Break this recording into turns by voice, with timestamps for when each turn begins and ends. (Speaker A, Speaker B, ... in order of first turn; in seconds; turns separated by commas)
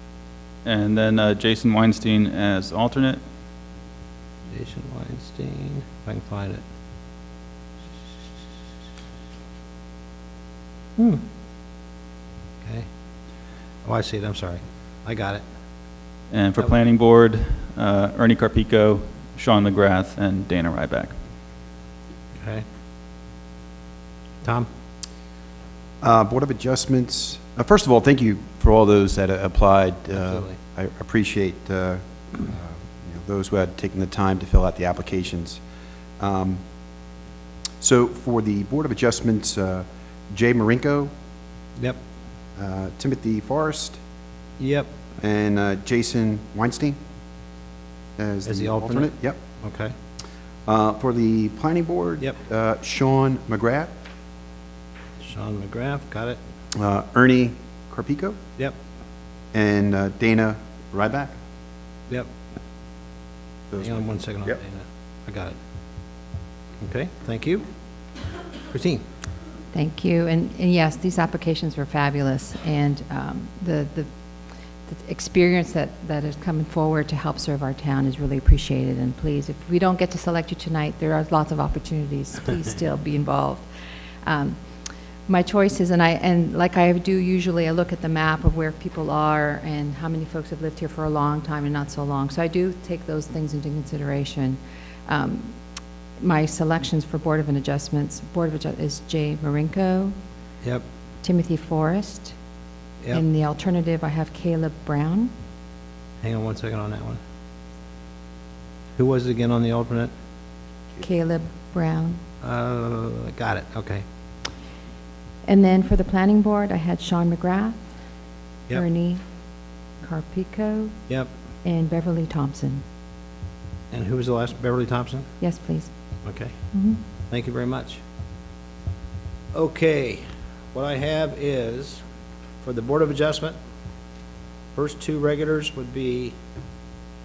Speaker A: 0.6-3.2, Speaker B: 4.5-6.6, Speaker B: 11.0-11.2, Speaker B: 13.8-15.4, Speaker A: 16.3-21.1, Speaker B: 22.4-22.6, Speaker B: 24.4-24.7, Speaker C: 26.0-35.6, Speaker B: 30.2-30.6, Speaker C: 36.2-36.6, Speaker C: 37.8-41.1, Speaker C: 42.6-44.0, Speaker B: 44.6-45.0, Speaker C: 45.2-47.0, Speaker C: 48.2-49.4, Speaker B: 48.4-49.9, Speaker C: 50.6-53.9, Speaker B: 55.2-56.4, Speaker C: 56.8-58.4, Speaker C: 59.5-61.3, Speaker C: 63.7-64.6, Speaker B: 63.8-65.5, Speaker B: 66.8-67.6, Speaker B: 68.7-69.0, Speaker D: 69.7-74.1, Speaker D: 74.9-83.7, Speaker D: 84.2-84.5, Speaker D: 85.3-95.5, Speaker D: 96.2-100.1, Speaker D: 101.2-102.3, Speaker D: 103.1-105.3, Speaker B: 106.2-107.2, Speaker B: 109.0-110.1, Speaker D: 111.0-112.2, Speaker B: 112.4-114.0, Speaker D: 115.5-117.8, Speaker D: 118.7-119.2, Speaker D: 120.0-120.9, Speaker D: 121.6-122.8, Speaker B: 123.9-125.3, Speaker D: 125.4-125.9, Speaker B: 126.2-126.5, Speaker D: 126.7-127.0, Speaker B: 127.3-128.0, Speaker B: 129.5-132.0, Speaker B: 132.6-133.6, Speaker B: 134.7-136.3